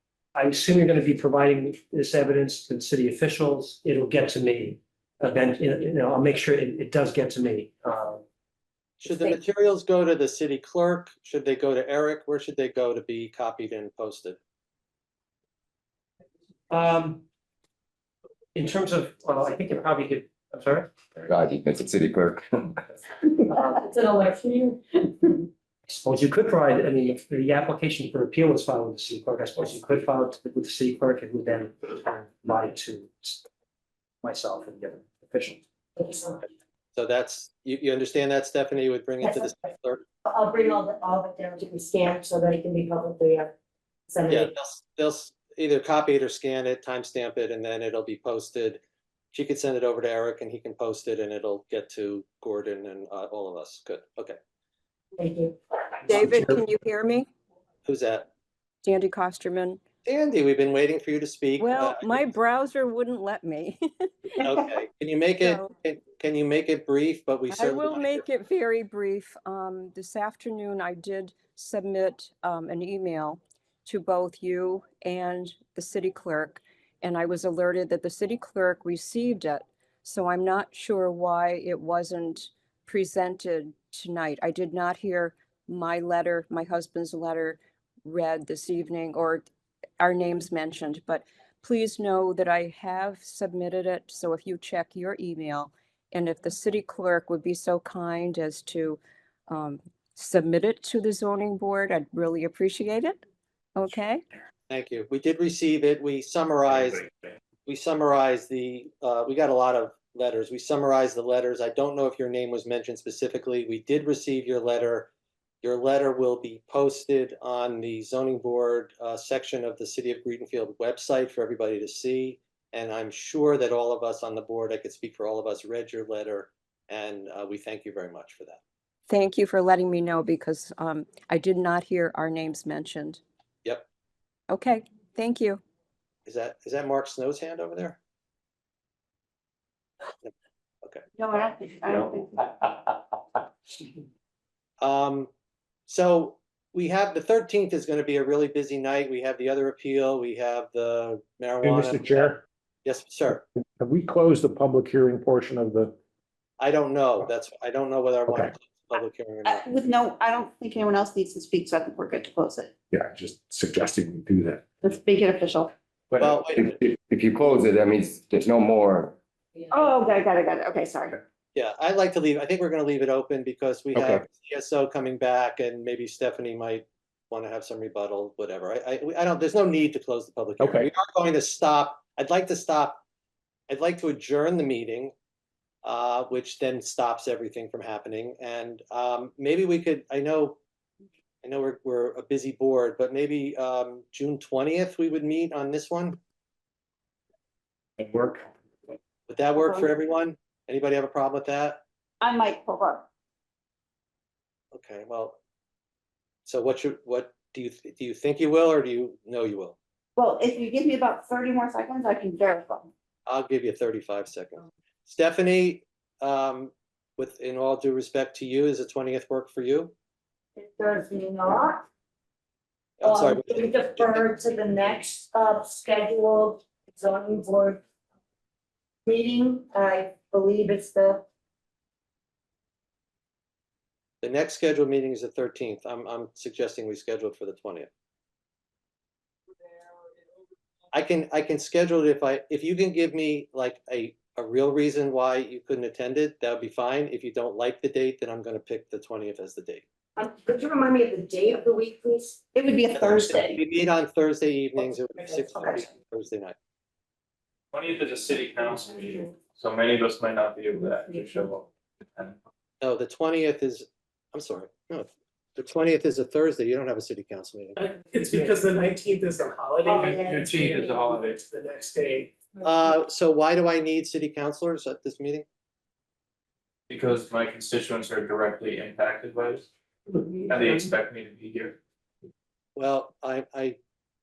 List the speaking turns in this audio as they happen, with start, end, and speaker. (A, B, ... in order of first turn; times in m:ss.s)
0:00.4-0:08.2 A
0:09.0-0:14.4 B
0:16.7-0:17.2 A
0:18.5-0:20.9 A
0:21.2-0:22.4 C
0:23.7-0:24.7 D
0:25.9-0:33.4 A
0:34.2-0:35.6 A
0:36.9-0:40.0 B
0:40.2-0:43.5 D
0:44.1-0:44.5 D
0:44.3-0:48.8 B
0:49.3-0:54.4 B
0:56.0-0:57.3 E
0:57.8-0:58.3 B
0:58.8-0:59.8 E
1:00.0-1:02.3 B
1:01.6-1:04.4 E
1:04.4-1:08.2 B
1:05.4-1:05.8 E
1:07.5-1:29.5 E
1:30.0-1:43.2 E
1:43.8-1:44.2 E
1:44.7-1:47.1 B
1:47.7-1:55.1 B
1:55.6-2:08.6 B
2:09.1-2:13.2 E
2:14.5-2:15.6 E
2:16.2-2:18.0 B
2:21.1-2:22.7 F
2:24.8-2:25.3 B
2:25.9-2:33.4 B
2:31.6-2:32.4 G
2:33.8-2:35.9 G
2:36.6-2:39.8 B
2:38.3-2:38.5 G
2:39.4-2:42.7 F
2:42.9-2:44.6 G
2:44.8-2:45.7 F
2:46.2-2:46.8 B
2:46.2-2:49.1 C
2:49.7-2:51.2 F
2:51.5-3:03.0 B
2:53.9-2:54.2 G
3:00.6-3:00.9 G
3:03.7-3:05.1 B
3:05.8-3:10.6 B
3:11.4-3:16.2 B
3:18.0-3:18.4 G
3:19.3-3:21.8 B
3:19.6-3:19.9 F
3:22.2-3:23.1 F
3:24.7-3:25.4 B
3:26.4-3:29.8 B
3:30.2-3:32.9 F
3:33.2-3:39.9 B
3:40.7-3:41.8 D
3:43.0-3:44.4 B
3:43.1-3:47.8 D
3:49.1-3:51.2 D
3:54.2-3:57.9 B
4:00.9-4:09.8 B
4:10.2-4:12.3 D
4:12.5-4:13.6 F
4:12.9-4:16.6 B
4:17.7-4:22.4 H
4:22.8-4:27.8 B
4:27.8-4:30.7 I
4:29.9-4:31.4 H
4:31.4-4:32.3 I
4:32.6-4:35.4 B
4:36.9-4:39.7 H
4:40.5-4:41.8 H
4:42.8-4:43.8 B